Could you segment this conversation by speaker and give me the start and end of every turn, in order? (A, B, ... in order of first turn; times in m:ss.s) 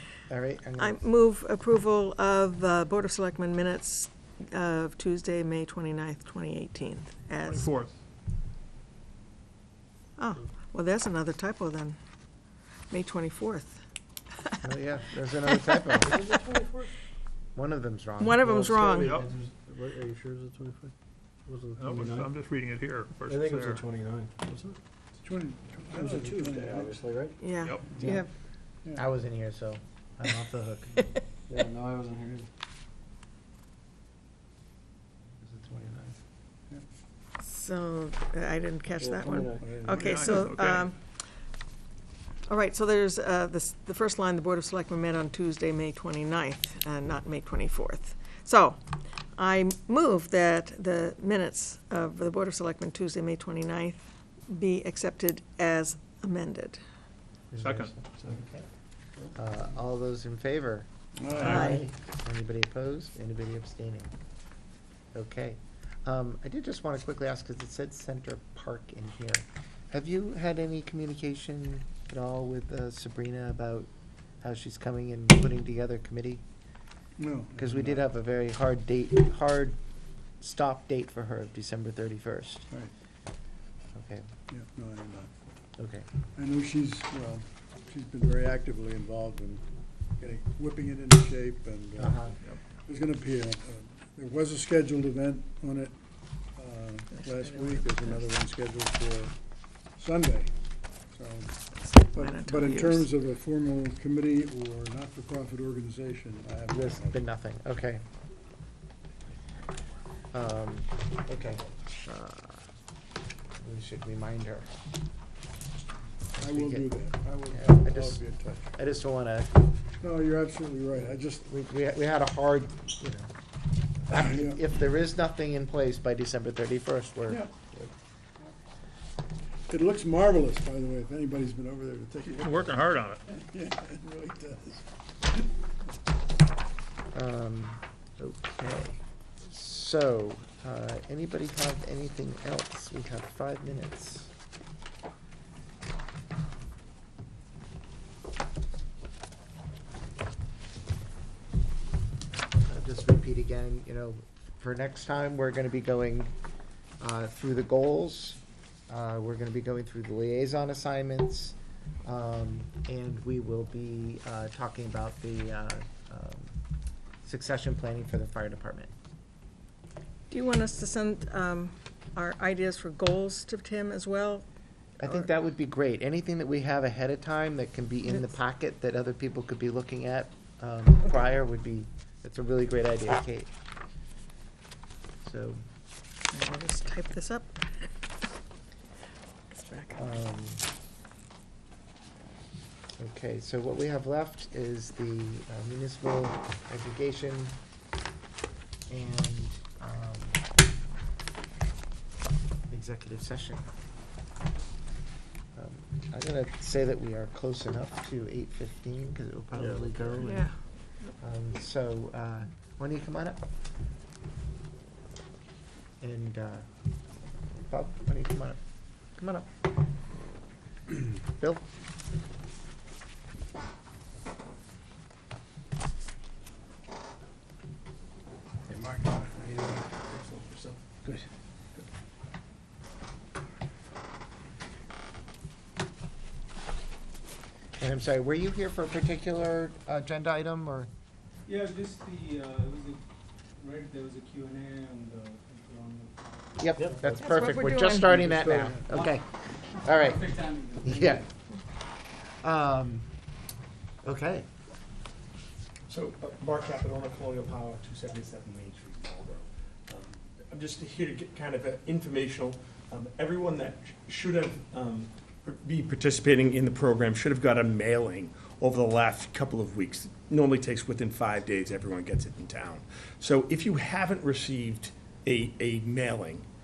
0:00.3-0:01.0 A
0:00.8-0:07.7 B
0:07.4-0:07.9 C
0:10.2-0:12.0 B
0:12.9-0:13.8 B
0:14.6-0:16.2 A
0:16.0-0:16.9 D
0:17.5-0:18.5 A
0:18.2-0:19.1 B
0:18.4-0:20.9 D
0:19.0-0:19.3 C
0:21.5-0:22.4 D
0:21.8-0:23.8 C
0:23.2-0:24.8 D
0:25.2-0:27.0 E
0:25.8-0:27.4 D
0:27.4-0:28.3 B
0:27.6-0:27.9 C
0:29.0-0:30.9 A
0:31.5-0:32.5 D
0:35.4-0:36.2 A
0:37.4-0:41.0 B
0:39.0-0:39.8 D
0:39.6-0:40.3 E
0:39.9-0:40.9 C
0:42.5-0:48.8 B
0:49.3-0:56.8 B
0:57.5-0:58.6 A
0:57.6-0:57.9 C
0:59.3-1:04.1 A
1:01.2-1:01.8 E
1:01.4-1:01.8 B
1:05.1-1:13.9 A
1:14.4-1:16.4 A
1:17.2-1:18.0 E
1:17.6-1:19.8 A
1:20.4-1:22.6 A
1:23.9-1:24.3 A
1:24.5-1:25.3 E
1:25.8-1:26.0 A
1:26.4-1:29.6 E
1:30.2-1:35.9 E
1:32.0-1:32.3 A
1:36.6-1:39.3 E
1:37.1-1:38.2 B
1:40.0-1:40.5 E
1:41.1-1:47.2 E
1:41.8-1:43.1 B
1:46.7-1:48.0 A
1:50.3-1:52.6 A
1:53.6-1:54.7 A
1:56.4-1:56.9 A
1:56.4-1:58.7 E
1:57.5-1:58.2 A
1:58.7-1:59.6 A
2:00.0-2:01.4 E
2:01.1-2:03.3 A
2:04.0-2:07.4 A
2:04.3-2:04.6 E
2:09.7-2:15.5 E
2:12.3-2:13.2 C
2:17.1-2:24.3 A
2:32.5-2:36.3 A
2:37.0-2:46.6 A
2:47.2-2:48.9 A
2:50.3-2:54.4 B
2:55.0-3:03.5 A
2:55.0-2:55.3 B
2:58.1-2:58.3 B
3:05.2-3:05.6 A
3:06.3-3:07.9 B
3:09.5-3:10.1 B
3:10.0-3:10.6 A
3:13.0-3:17.6 A
3:18.9-3:20.4 A
3:22.7-3:23.6 A
3:25.5-3:30.5 A
3:29.5-3:30.2 D
3:30.2-3:30.5 B
3:31.2-3:33.4 A
3:36.0-3:36.6 A
3:37.7-3:38.6 A
3:39.2-3:39.5 A
3:41.3-3:41.6 A
3:48.7-3:51.0 F
3:57.8-4:00.9 A
4:01.5-4:03.0 G
4:03.6-4:06.8 G
4:06.6-4:11.2 A
4:07.0-4:08.4 B
4:08.6-4:09.2 G
4:09.9-4:11.2 G
4:12.4-4:13.1 A
4:14.0-4:14.5 A
4:15.9-4:36.4 F